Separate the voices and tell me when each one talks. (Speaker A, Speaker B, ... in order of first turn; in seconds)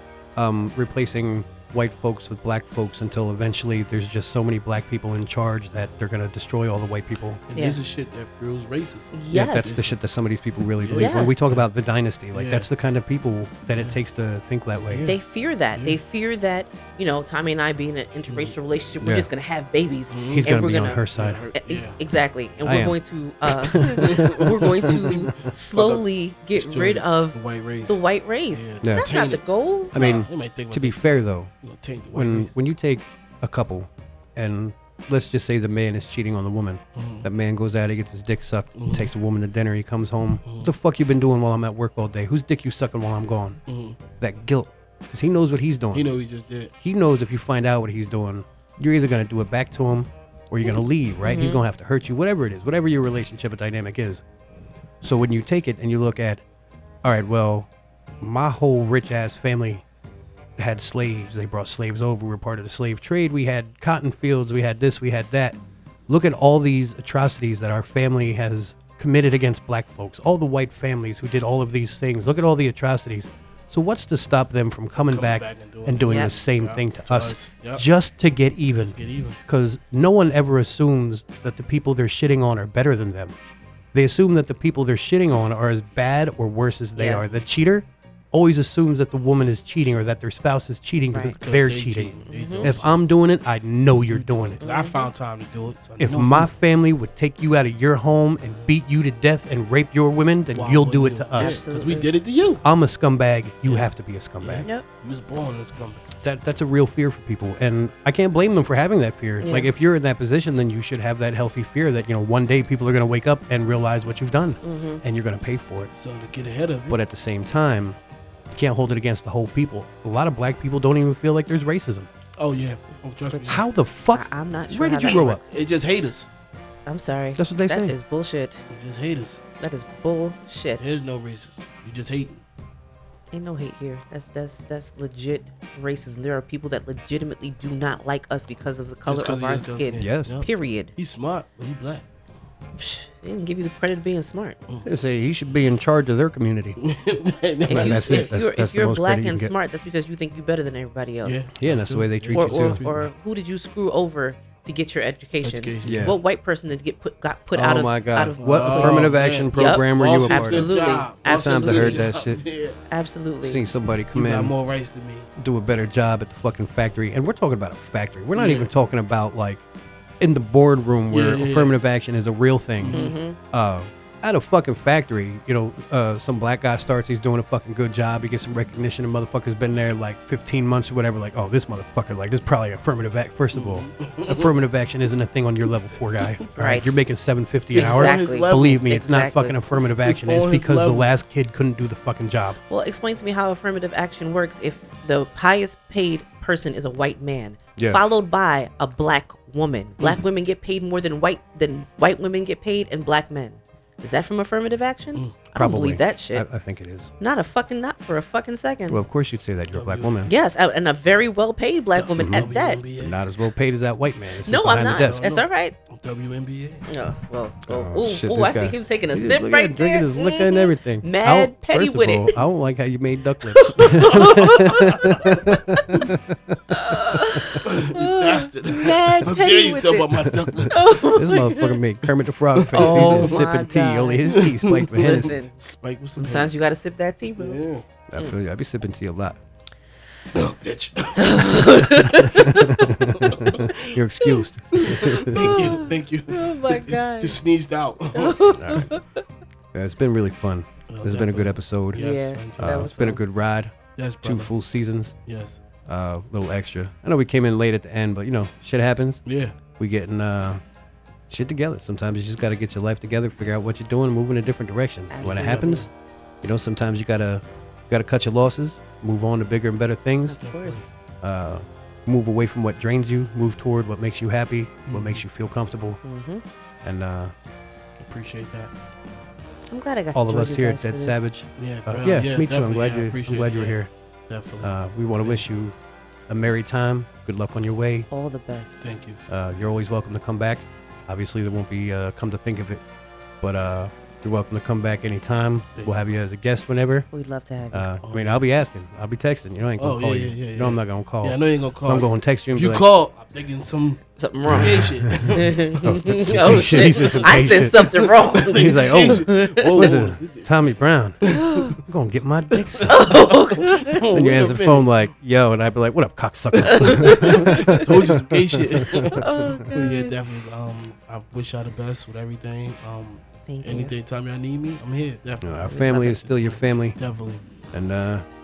Speaker A: 0.4-7.4, 9.3-15.1, 19.0-19.3, 20.3-21.4, 22.6-23.0, 23.5-25.3, 28.8-29.1, 29.9-31.5, 32.1-43.6, 44.2-46.1, 46.8-54.2, 55.0-56.4, 57.0-57.7, 58.2-59.8, 60.6-83.4, 83.9-94.6, 96.0-101.6, 102.6-104.7, 106.2-115.9, 116.9-118.0, 118.5-122.1, 123.5-125.4, 127.4-128.0, 140.0-140.3, 144.8-146.8, 147.7-149.5, 151.6-152.8, 155.8-156.2, 157.5-162.4, 163.4-164.5, 165.4-169.6, 170.2-192.6, 205.6-207.1, 208.9-210.3, 212.2-215.2, 217.7-227.6, 230.2-235.3, 238.1-239.4, 242.0-245.8, 248.6-248.9, 249.7-255.2, 255.9-260.6, 261.3-265.9, 266.4-270.4, 271.2-276.0, 276.8-277.3, 280.1-283.9, 284.6-285.8, 286.3-288.1, 289.3-292.8, 293.4-297.1, 297.7-302.9, 304.5-313.1, 314.1-319.8, 325.4-327.0, 327.7-328.2
Speaker B: 7.5-10.0, 10.8-11.7, 12.3-12.7, 14.9-15.2, 15.7-16.0, 18.3-18.6, 20.1-20.5, 21.1-22.0, 24.0-29.4, 29.9-31.0, 31.6-32.5, 37.0-37.3, 38.8-39.1, 40.5-40.7, 43.7-44.0, 45.9-46.7, 75.1-77.9, 78.9-79.4, 91.3-93.0, 94.1-96.5, 100.5-102.6, 103.7-106.1, 115.9-117.0, 122.4-123.6, 125.0-126.3, 128.7-129.4, 130.8-132.4, 139.1-142.1, 146.8-148.3, 151.2-153.1, 155.4-156.1, 158.4-162.8, 164.1-165.3, 168.3-168.7, 171.1-171.8, 172.8-173.2, 183.5-184.5, 187.7-188.9, 190.0-191.1, 205.1-205.4, 209.7-210.2, 211.9-213.2, 215.0-216.9, 225.1-225.4, 227.6-230.9, 232.6-233.4, 234.3-236.5, 237.4-237.8, 240.3-241.8, 243.1-243.6, 244.7-248.4, 250.9-253.2, 254.0-254.5, 255.3-255.6, 259.3-259.6, 265.2-265.9, 270.4-270.8, 274.9-275.2, 278.0-278.7, 281.6-285.4, 288.8-289.2, 295.8-296.1, 298.0-298.5, 299.8-304.0, 304.6-305.6, 306.5-310.5, 311.2-311.8, 312.5-314.9, 316.6-319.2, 319.7-327.4
Speaker C: 7.5-7.8, 9.1-9.7, 11.0-11.4, 15.1-21.0, 21.6-30.1, 51.2-51.6, 76.0-76.3, 87.0-87.2, 92.3-92.7, 94.6-95.1, 101.4-102.1, 109.4-109.7, 114.6-115.0, 123.3-123.6, 124.1-125.6, 126.9-128.6, 129.6-131.0, 133.3-140.9, 142.8-144.6, 147.7-151.5, 152.3-162.1, 162.9-163.6, 172.9-173.4, 186.6-186.9, 187.7-189.6, 192.7-206.5, 207.2-209.0, 210.3-212.8, 214.5-215.8, 216.9-222.3, 223.6-226.1, 226.7-231.8, 232.7-235.6, 236.2-237.6, 241.2-243.7, 244.8-247.4, 248.1-249.2, 251.9-253.0, 265.1-265.9, 270.3-270.9, 276.0-276.4, 279.7-281.2, 288.1-288.8, 297.1-297.9, 304.2-309.9, 311.3-311.7, 312.9-314.1, 316.7-317.6, 319.1-320.2, 323.5-323.9, 325.7-326.2